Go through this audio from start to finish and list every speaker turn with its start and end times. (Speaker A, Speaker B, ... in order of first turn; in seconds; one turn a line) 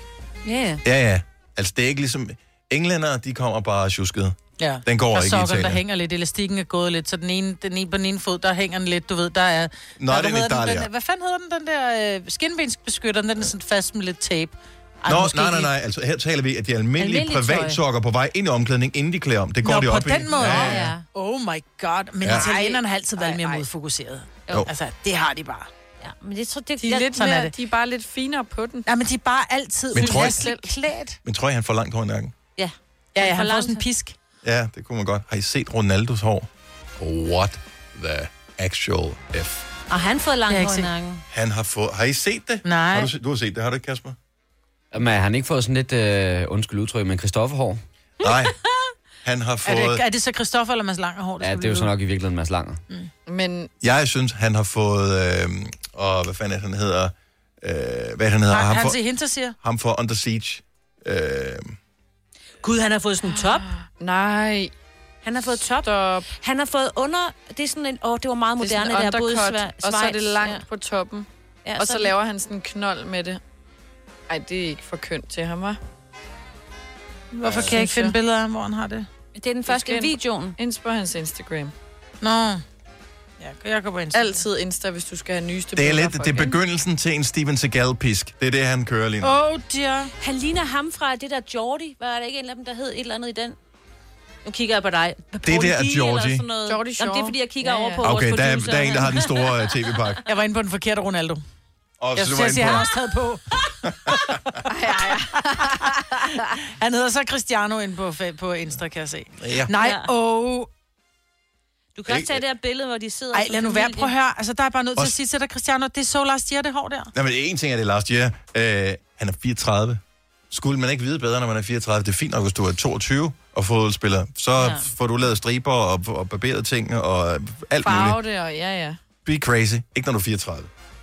Speaker A: 0.4-0.8
Speaker B: 0.8-5.8
Speaker C: 4.6-14.5
Speaker B: 10.0-10.9
Speaker A: 15.0-15.7
Speaker B: 15.1-20.9
Speaker A: 17.0-17.8
Speaker C: 19.6-25.7
Speaker A: 20.4-21.0
Speaker B: 22.2-22.5
Speaker A: 22.3-23.5
Speaker A: 26.0-27.1
Speaker D: 26.8-28.9
Speaker C: 27.1-27.5
Speaker C: 28.9-31.2
Speaker B: 29.9-30.5
Speaker D: 30.2-30.7
Speaker B: 31.2-32.3
Speaker A: 32.5-33.8
Speaker C: 33.1-34.1
Speaker B: 34.4-39.6
Speaker A: 39.9-41.2
Speaker C: 40.5-40.9
Speaker B: 41.3-44.2
Speaker C: 42.6-43.1
Speaker E: 44.9-47.8
Speaker B: 48.2-48.5
Speaker B: 49.2-50.0
Speaker C: 49.6-51.9
Speaker E: 51.4-52.8
Speaker D: 53.2-53.7
Speaker B: 53.8-59.0
Speaker C: 58.5-59.5
Speaker B: 59.6-61.8
Speaker A: 62.6-63.7
Speaker D: 63.2-64.7
Speaker A: 65.2-70.6
Speaker D: 65.8-66.3
Speaker D: 68.6-73.4
Speaker A: 71.6-72.1
Speaker D: 74.3-75.8
Speaker C: 77.3-79.1
Speaker B: 77.5-77.7
Speaker D: 77.5-78.2
Speaker A: 79.3-80.5
Speaker D: 79.7-81.7
Speaker C: 82.2-82.6
Speaker C: 83.4-84.4
Speaker D: 84.1-86.6
Speaker B: 85.8-89.4
Speaker C: 89.2-90.1
Speaker A: 90.2-93.6
Speaker A: 94.4-99.7
Speaker B: 95.4-96.5
Speaker D: 96.7-98.1
Speaker B: 98.0-100.2
Speaker C: 100.2-101.4
Speaker B: 102.0-102.9
Speaker C: 102.2-103.6
Speaker B: 103.8-104.4
Speaker D: 104.7-105.9
Speaker C: 105.1-110.7
Speaker B: 109.4-109.7
Speaker A: 109.7-110.1
Speaker A: 111.9-114.1
Speaker B: 112.1-112.4
Speaker C: 113.3-117.1
Speaker B: 117.1-128.2
Speaker A: 124.6-124.8
Speaker D: 127.8-129.0
Speaker B: 129.2-130.7